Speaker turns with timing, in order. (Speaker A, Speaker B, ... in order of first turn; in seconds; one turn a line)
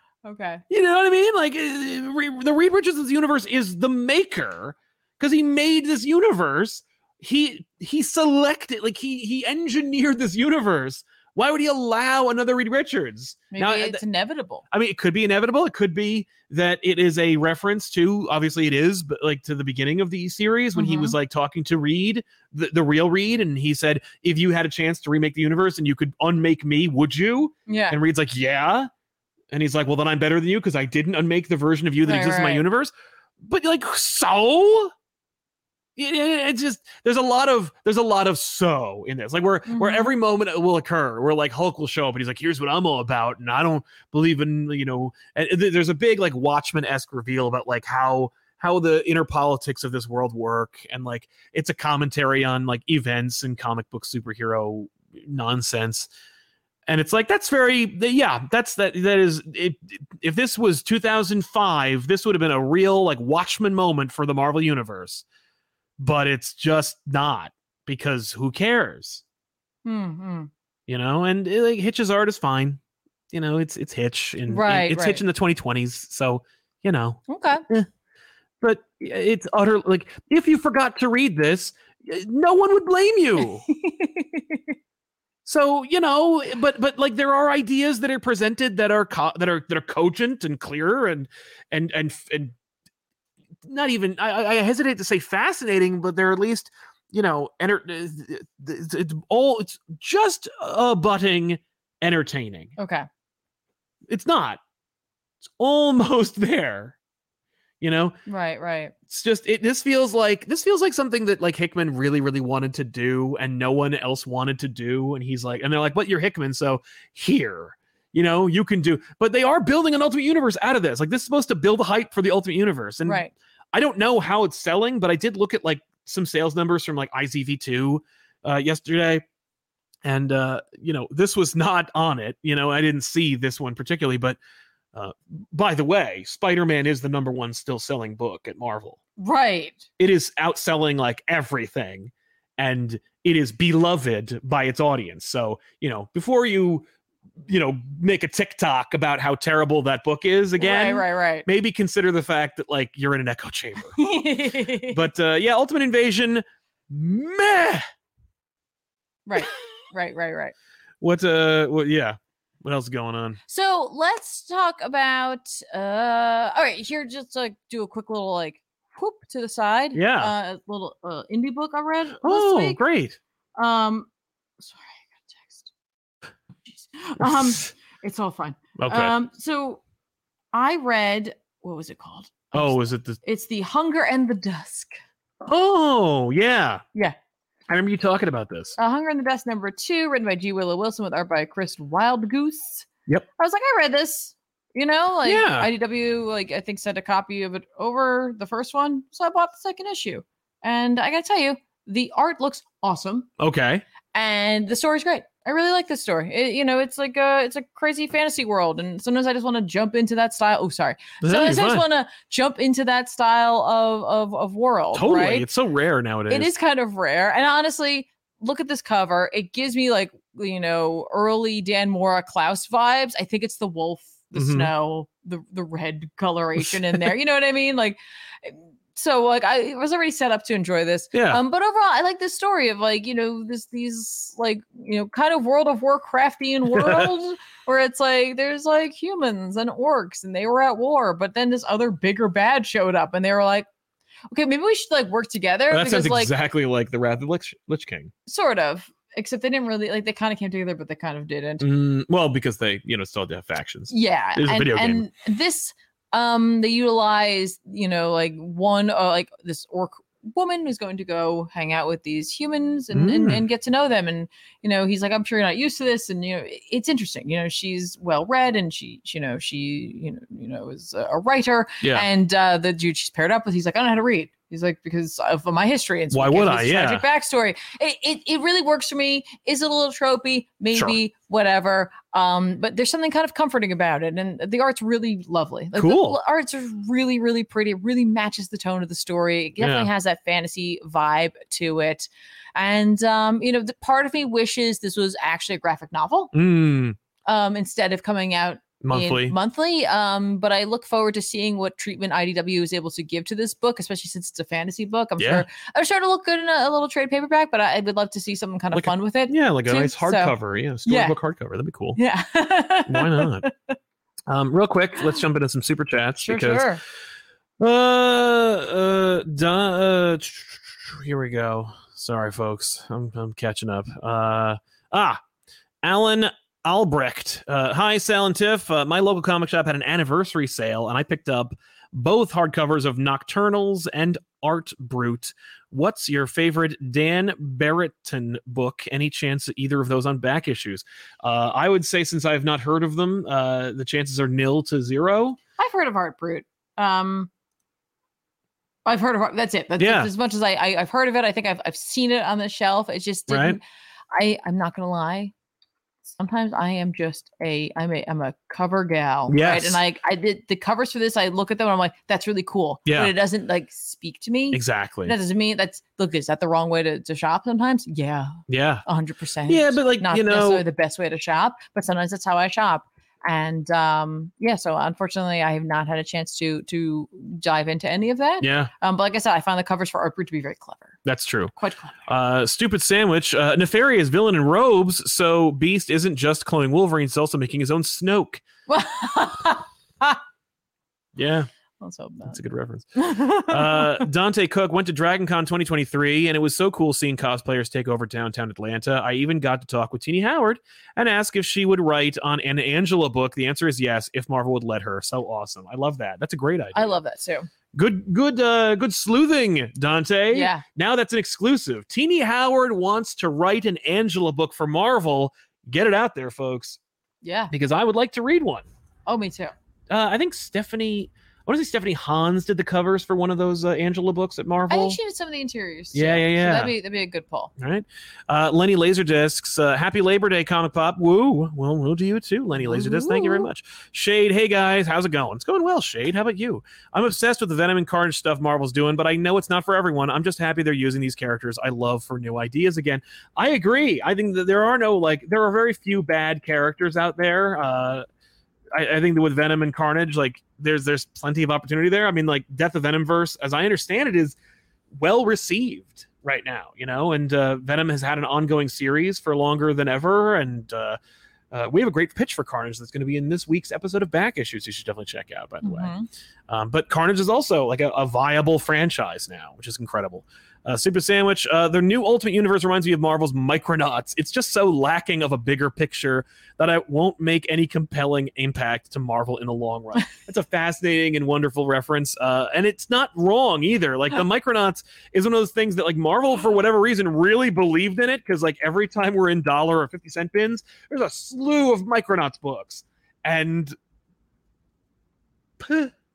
Speaker A: 0.2-0.6
Speaker B: 0.7-14.0
Speaker A: 13.5-14.6
Speaker B: 14.7-28.9
Speaker A: 20.8-21.2
Speaker A: 27.7-28.0
Speaker B: 29.5-32.9
Speaker A: 32.0-32.6
Speaker B: 33.4-34.9
Speaker B: 36.0-56.1
Speaker A: 39.7-40.1
Speaker B: 56.9-65.2
Speaker B: 66.0-69.2
Speaker A: 69.8-70.5
Speaker B: 70.9-72.8
Speaker B: 73.3-77.9
Speaker A: 74.5-75.2
Speaker A: 77.3-77.6
Speaker B: 78.6-83.7
Speaker A: 83.4-84.7
Speaker B: 85.5-92.5
Speaker B: 93.7-102.8
Speaker A: 102.8-103.1
Speaker B: 104.1-104.6
Speaker B: 105.4-107.0
Speaker B: 107.8-108.2
Speaker A: 108.3-108.9
Speaker B: 109.1-129.2
Speaker A: 123.0-123.3
Speaker B: 130.1-134.4
Speaker B: 134.9-139.0
Speaker A: 139.2-139.9
Speaker B: 140.0-146.9
Speaker B: 147.5-154.0
Speaker A: 150.6-151.5
Speaker A: 154.0-155.0
Speaker B: 154.8-157.8
Speaker A: 159.3-160.5
Speaker B: 161.0-163.4
Speaker A: 163.5-172.8
Speaker B: 169.9-170.3
Speaker B: 172.2-173.2
Speaker A: 173.6-175.7
Speaker A: 176.7-179.8
Speaker B: 178.8-179.2
Speaker A: 180.5-184.9
Speaker B: 182.5-183.2
Speaker B: 185.4-186.8
Speaker B: 187.7-188.8
Speaker A: 188.8-203.3
Speaker B: 195.2-195.7
Speaker B: 203.4-203.8
Speaker A: 204.1-215.5
Speaker B: 211.2-211.8
Speaker B: 214.9-216.5
Speaker A: 216.3-243.7
Speaker B: 224.3-224.7
Speaker B: 226.6-227.0
Speaker B: 231.1-231.4
Speaker B: 236.7-237.1
Speaker A: 244.3-246.3
Speaker B: 245.7-248.1
Speaker A: 248.3-251.6
Speaker B: 251.6-255.1
Speaker A: 253.9-296.3
Speaker B: 262.9-263.4
Speaker B: 271.8-272.1
Speaker B: 276.1-277.1
Speaker B: 285.8-286.2
Speaker B: 289.6-289.9
Speaker B: 296.3-297.0
Speaker A: 297.2-311.2
Speaker B: 298.8-299.4
Speaker B: 305.2-305.4
Speaker B: 308.7-312.0
Speaker A: 312.0-313.8
Speaker B: 312.9-313.5
Speaker B: 314.3-316.7
Speaker A: 316.2-316.8
Speaker B: 317.6-325.2
Speaker B: 325.8-345.4
Speaker A: 345.6-347.3
Speaker A: 348.9-353.6
Speaker B: 349.8-350.1
Speaker B: 353.3-353.6
Speaker A: 354.1-355.3
Speaker A: 356.0-381.0
Speaker B: 359.3-359.8
Speaker B: 362.9-363.1
Speaker B: 364.5-365.1
Speaker B: 368.5-368.9
Speaker B: 369.5-370.6
Speaker B: 378.4-378.7
Speaker B: 381.1-381.5
Speaker A: 381.6-382.1
Speaker B: 382.1-388.4
Speaker A: 388.7-390.2
Speaker B: 391.2-391.5
Speaker A: 391.8-392.4
Speaker B: 392.3-406.9
Speaker A: 393.0-394.1
Speaker A: 406.7-407.5
Speaker B: 407.7-416.8
Speaker A: 410.3-410.6
Speaker A: 417.2-417.5
Speaker B: 417.5-418.7
Speaker A: 419.1-419.5
Speaker B: 419.9-425.0
Speaker A: 424.7-427.5
Speaker B: 425.9-426.7
Speaker B: 427.6-448.1
Speaker A: 432.6-433.5
Speaker B: 448.7-454.4
Speaker B: 455.0-461.0
Speaker B: 461.5-465.9
Speaker A: 465.6-466.1
Speaker B: 466.5-493.8
Speaker B: 495.6-495.9